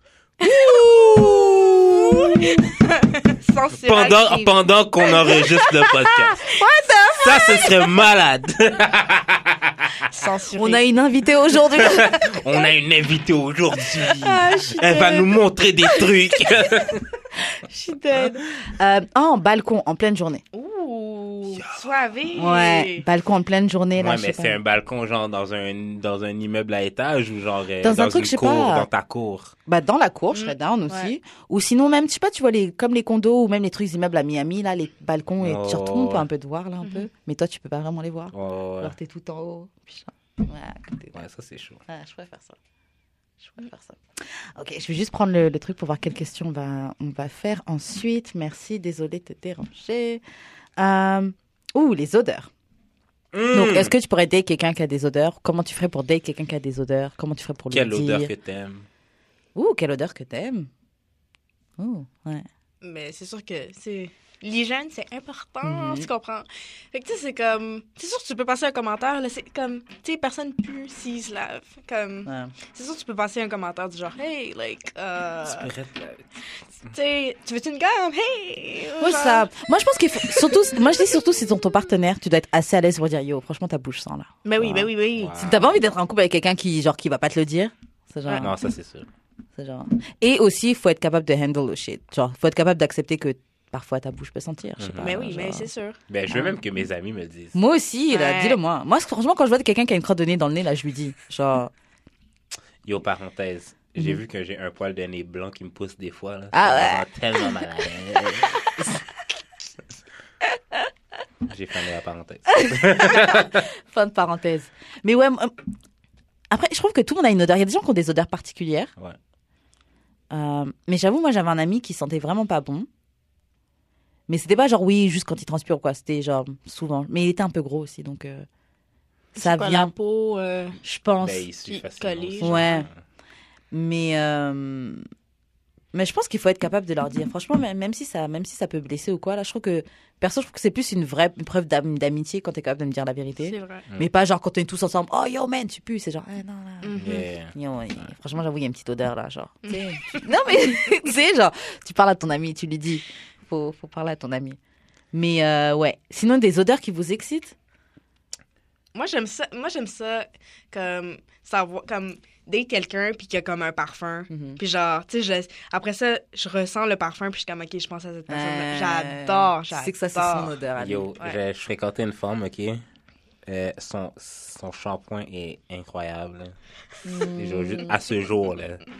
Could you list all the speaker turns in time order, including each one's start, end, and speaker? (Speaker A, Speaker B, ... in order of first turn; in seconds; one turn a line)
Speaker A: 0.4-1.1
Speaker B: 0.4-2.6
Speaker A: 1.9-4.5
Speaker C: 3.8-6.5
Speaker A: 5.0-5.7
Speaker B: 6.1-7.7
Speaker C: 7.2-10.1
Speaker A: 10.1-10.8
Speaker B: 10.6-12.4
Speaker C: 11.8-17.1
Speaker B: 14.1-15.3
Speaker B: 17.4-20.4
Speaker A: 20.5-23.1
Speaker C: 21.6-21.8
Speaker B: 22.4-24.6
Speaker C: 23.9-29.6
Speaker B: 27.8-28.9
Speaker B: 29.6-41.2
Speaker A: 30.3-31.1
Speaker C: 35.4-36.3
Speaker A: 36.8-37.1
Speaker C: 38.3-38.9
Speaker C: 41.1-41.8
Speaker B: 41.9-42.6
Speaker B: 43.4-50.2
Speaker B: 50.8-52.5
Speaker C: 53.3-53.9
Speaker B: 53.5-58.3
Speaker C: 57.7-58.9
Speaker B: 59.5-60.7
Speaker B: 61.8-62.5
Speaker A: 62.8-75.7
Speaker B: 65.7-66.1
Speaker B: 72.3-72.5
Speaker C: 75.4-76.3
Speaker A: 76.9-79.5
Speaker B: 79.0-88.5
Speaker A: 84.4-85.3
Speaker C: 85.1-85.8
Speaker C: 88.3-89.1
Speaker B: 89.6-95.7
Speaker C: 94.8-97.6
Speaker A: 95.0-96.0
Speaker B: 96.3-96.6
Speaker B: 97.5-101.7
Speaker A: 98.1-98.6
Speaker C: 102.8-108.8
Speaker B: 106.5-107.0
Speaker B: 108.8-109.0
Speaker C: 111.5-113.7
Speaker B: 112.5-115.5
Speaker B: 116.5-118.9
Speaker B: 120.3-122.9
Speaker B: 124.3-128.5
Speaker B: 129.3-129.9
Speaker A: 129.3-130.8
Speaker B: 130.8-131.5
Speaker C: 131.2-133.0
Speaker A: 131.7-132.9
Speaker B: 132.4-132.9
Speaker B: 133.7-135.1
Speaker B: 135.9-154.6
Speaker A: 143.4-143.8
Speaker A: 146.8-147.3
Speaker C: 147.0-148.0
Speaker A: 149.7-150.3
Speaker B: 155.1-157.6
Speaker A: 158.9-170.6
Speaker B: 164.3-164.6
Speaker B: 168.3-171.1
Speaker C: 170.8-172.8
Speaker C: 173.4-176.6
Speaker B: 177.0-178.0
Speaker C: 177.2-178.8